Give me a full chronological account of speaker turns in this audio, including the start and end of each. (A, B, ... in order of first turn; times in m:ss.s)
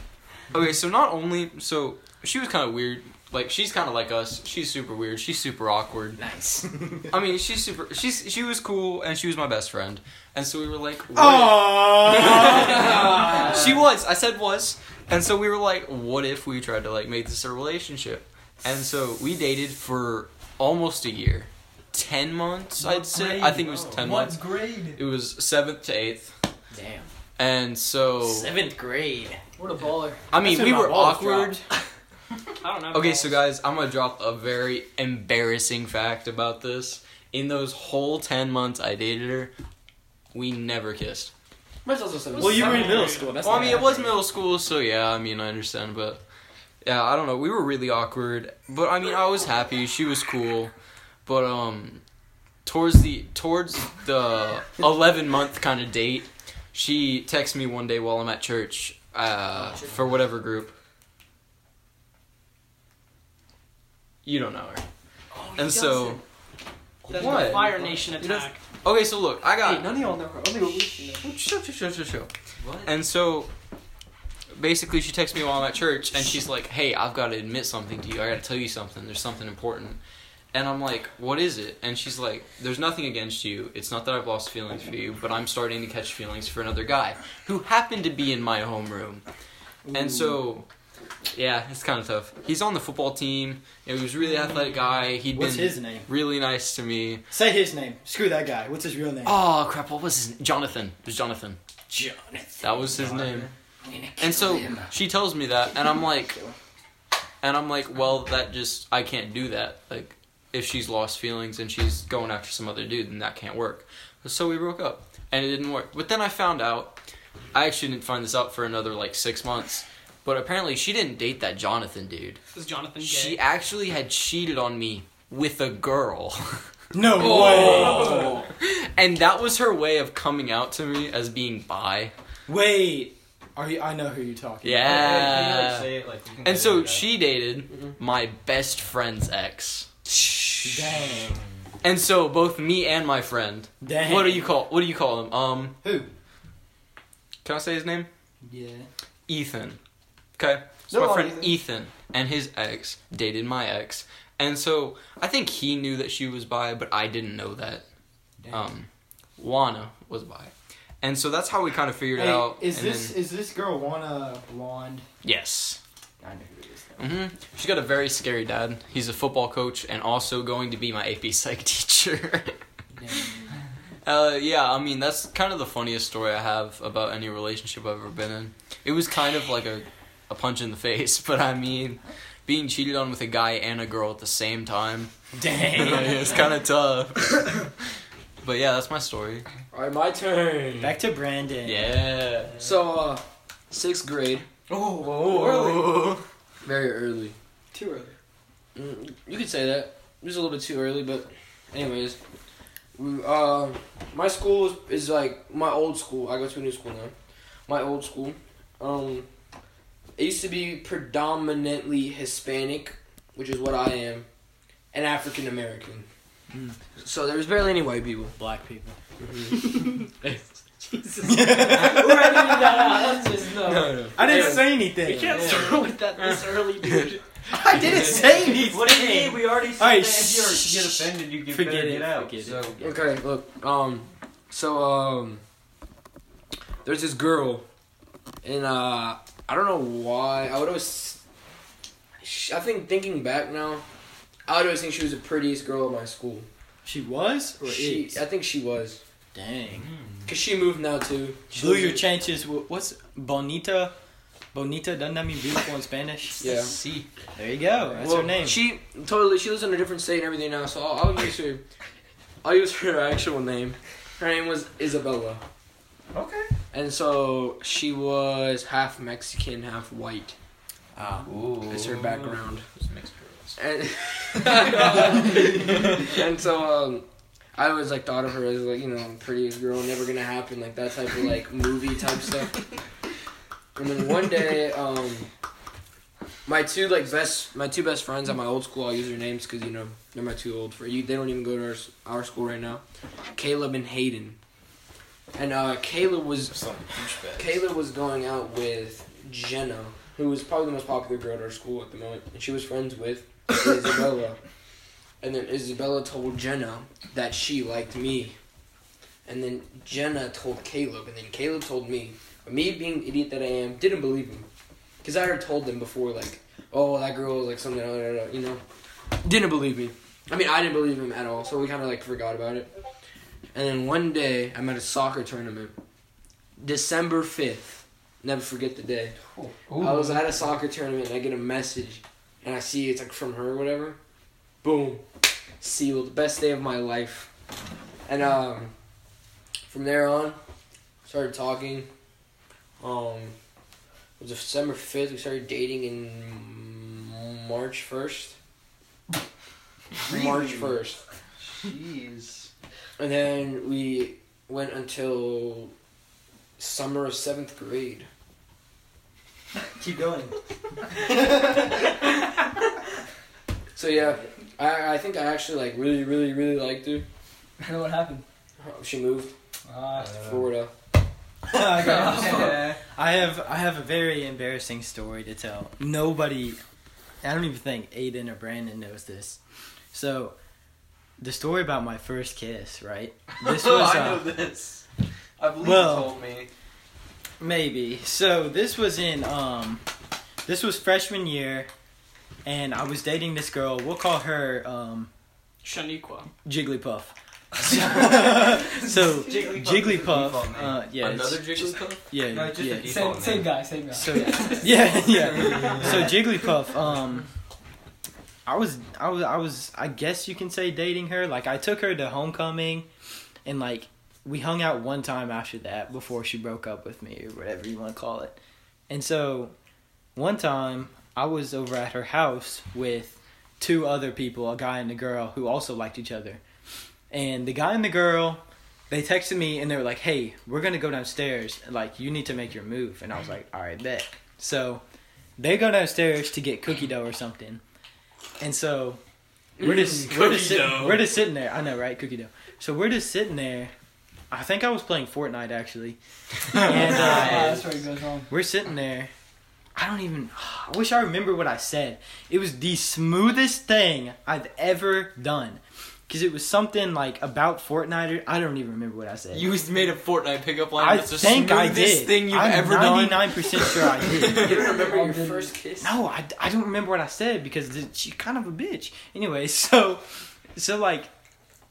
0:00.5-0:06.2 A
0:06.2-0:07.1 B
0:07.1-0:26.3 A
0:11.1-0:13.7 B
0:12.4-0:13.7 C
0:22.8-0:25.0 D
0:23.7-0:24.0 E
0:26.7-0:27.1 B
0:27.4-0:28.5 A
0:28.2-0:29.4 B
0:29.6-0:30.3 D
0:30.3-0:31.6 A
0:30.3-0:31.6 B
0:32.6-0:33.4 F
0:32.9-0:39.5 A
0:40.3-0:41.3 A
0:41.9-0:43.2 C
0:42.4-0:43.4 F
0:42.4-0:44.2 B
0:43.4-0:46.2 A
0:46.8-0:50.7 A
0:51.2-0:52.0 A
0:52.6-1:00.7 A
1:04.2-1:04.8 A
1:05.4-1:06.2 D
1:05.5-1:06.2 A
1:07.1-1:07.6 E
1:07.1-1:09.9 A
1:07.1-1:08.6 F
1:07.4-1:08.0 D
1:09.6-1:11.3 D
1:10.6-1:11.1 B
1:11.2-1:12.3 A
1:12.6-1:12.9 E
1:12.8-1:13.5 A
1:14.5-1:20.0 A
1:20.5-1:29.2 A
1:29.8-1:30.4 B
1:29.9-1:30.6 A
1:31.3-1:37.3 A
1:35.3-1:36.1 B
1:37.3-1:39.4 B
1:39.2-1:41.6 A
1:41.9-1:43.0 B
1:42.6-1:43.5 A
1:42.9-1:43.5 E
1:43.8-1:45.0 B
1:44.2-1:46.4 A
1:47.4-1:57.0 A
1:57.5-2:02.4 A
2:02.5-2:03.4 F
2:03.0-2:12.1 A
2:06.9-2:08.4 B
2:07.2-2:08.5 C
2:12.5-2:15.4 B
2:14.6-2:21.0 A
2:14.8-2:17.1 E
2:20.6-2:21.4 B
2:21.8-2:25.8 A
2:23.8-2:24.5 B
2:27.4-2:28.1 A
2:28.4-2:28.9 B
2:29.3-2:29.8 A
2:30.4-2:37.9 A
2:30.9-2:31.5 B
2:38.4-2:38.7 B
2:38.5-2:43.1 A
2:42.1-2:45.1 B
2:45.2-2:45.8 A
2:46.2-2:47.0 B
2:47.0-2:52.6 A
2:53.0-2:53.4 B
2:54.0-3:05.1 A
3:05.3-3:06.4 B
3:05.7-3:07.7 A
3:08.4-3:09.5 A
3:09.7-3:11.0 C
3:10.8-3:11.8 B
3:11.6-3:12.6 A
3:12.6-3:14.5 C
3:15.0-3:15.8 C
3:15.2-3:16.2 A
3:15.3-3:15.8 D
3:16.6-3:17.4 C
3:17.7-3:18.1 D
3:18.7-3:22.2 C
3:23.0-3:27.1 C
3:27.7-3:29.3 C
3:30.2-3:34.3 C
3:34.9-3:36.1 C
3:36.5-3:36.8 B
3:37.0-3:38.4 C
3:38.4-3:39.0 B
3:39.2-3:40.5 C
3:41.0-3:41.7 F
3:41.2-3:42.7 B
3:41.6-3:44.1 D
3:42.7-3:43.0 C
3:43.5-3:44.8 C
3:44.1-3:45.6 B
3:45.0-3:47.4 F
3:45.3-3:45.6 E
3:47.5-3:53.1 B
3:47.8-3:52.8 E
3:52.8-3:55.4 C
3:56.8-3:57.6 C
3:58.4-4:01.2 C
4:02.2-4:03.8 C
4:04.5-4:06.5 C
4:06.8-4:08.2 B
4:07.6-4:09.0 C
4:09.3-4:09.9 B
4:09.7-4:10.2 E
4:10.2-4:12.0 C
4:11.5-4:13.9 B
4:14.5-4:16.4 B
4:16.4-4:16.7 C
4:16.4-4:17.1 A
4:17.4-4:18.6 B
4:18.0-4:21.6 C
4:22.4-4:25.4 C
4:26.7-4:30.4 C
4:31.0-4:35.8 A
4:31.6-4:32.7 C
4:33.6-4:42.7 C
4:43.8-4:45.3 C
4:46.4-4:52.8 C
4:53.4-4:54.4 C
4:55.4-4:56.6 C
4:56.5-4:57.6 A
4:57.4-5:04.4 C
5:05.2-5:08.4 C
5:09.2-5:14.5 C
5:15.0-5:18.6 C
5:19.2-5:22.7 C
5:23.5-5:25.7 C
5:26.6-5:29.2 C
5:29.7-5:30.2 A
5:29.8-5:34.0 C
5:34.6-5:35.0 C
5:35.6-5:37.3 C
5:38.1-5:38.7 C
5:39.7-5:40.4 C
5:41.0-5:41.9 C
5:42.8-5:43.4 C
5:44.2-5:48.4 C
5:50.0-5:51.0 C
5:51.6-5:52.5 A
5:53.0-5:55.7 C
5:56.6-5:58.1 C
5:59.7-6:00.4 B
6:00.9-6:01.9 B
6:03.7-6:07.0 C
6:04.0-6:04.3 B
6:07.6-6:08.2 D
6:08.6-6:09.3 C
6:09.7-6:10.2 D
6:09.9-6:10.5 E
6:10.1-6:10.7 C
6:11.5-6:16.6 B
6:11.7-6:12.8 D
6:12.2-6:12.7 E
6:17.2-6:19.4 B
6:19.9-6:20.4 B
6:21.2-6:24.3 B
6:23.4-6:24.9 A
6:25.4-6:26.5 A
6:25.6-6:26.2 B
6:27.4-6:29.8 B
6:30.4-6:31.7 B
6:32.4-6:35.1 B
6:35.6-6:36.3 F
6:36.4-6:43.0 B
6:38.9-6:40.8 E
6:41.0-6:42.1 A
6:42.3-6:43.7 E
6:42.8-6:45.9 D
6:43.9-6:47.3 B
6:45.3-6:46.2 E
6:48.4-6:52.9 B
6:53.4-6:58.4 B
6:58.9-6:59.5 B
7:00.2-7:06.4 B
7:07.1-7:14.8 B
7:15.4-7:17.6 B
7:18.4-7:19.0 B
7:19.6-7:21.1 C
7:19.6-7:23.7 B
7:24.3-7:26.0 B
7:26.5-7:27.7 B
7:26.6-7:28.3 D
7:26.7-7:27.7 E
7:28.3-7:29.1 B
7:29.8-7:39.5 B
7:39.3-7:44.7 A
7:40.8-7:44.6 B
7:44.2-7:46.0 C
7:44.7-7:45.5 D
7:45.8-7:50.0 B
7:50.5-7:51.1 B